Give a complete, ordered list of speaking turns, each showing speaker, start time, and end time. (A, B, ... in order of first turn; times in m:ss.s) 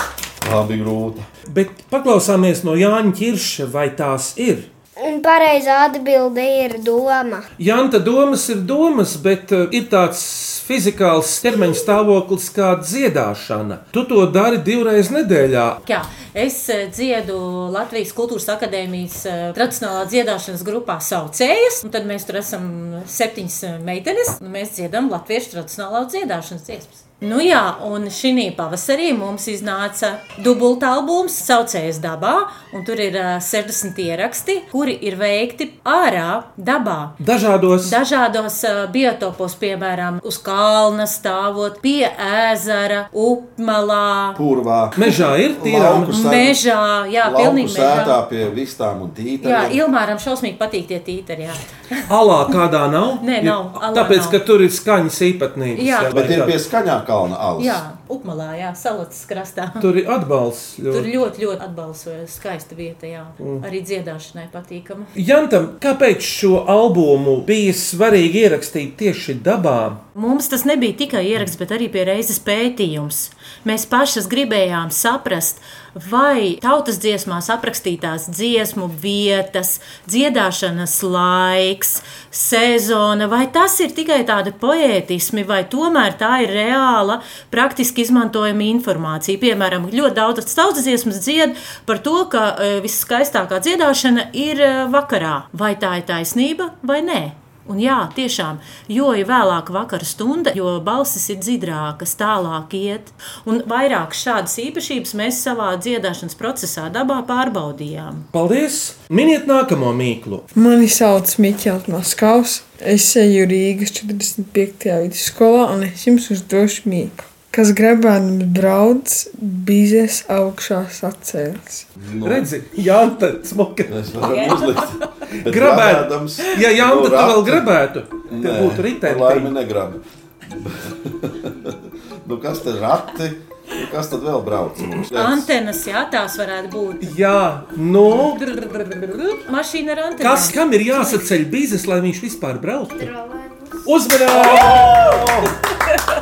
0:00.4-0:01.3 A
0:01.5-0:04.7 B
0:05.0-0:07.5 C
0:07.6-0:15.8 B
0:15.8-0:37.2 D
0:37.2-0:38.0 B
0:37.8-0:44.4 D
0:44.4-0:46.6 A
0:45.0-0:46.2 B
0:46.1-0:48.2 D
0:47.2-0:49.8 A
0:49.4-0:52.0 D
0:52.1-0:56.6 B
0:53.2-0:54.4 D
0:55.8-0:56.1 D
0:56.1-0:57.8 A
0:57.6-0:59.8 D
0:59.8-1:01.1 B
1:00.9-1:05.1 D
1:05.2-1:10.0 B
1:10.2-1:48.3 D
1:48.3-1:50.5 B
1:50.6-2:01.9 E
2:02.0-2:02.5 A
2:02.2-2:04.6 B
2:03.9-2:07.7 A
2:05.4-2:09.5 B
2:08.3-2:10.0 A
2:10.5-2:15.5 A
2:15.1-2:17.1 D
2:17.0-2:19.2 B
2:19.3-2:21.3 D
2:20.2-2:23.1 B
2:23.0-2:23.9 C
2:23.8-2:25.5 B
2:24.3-2:25.5 A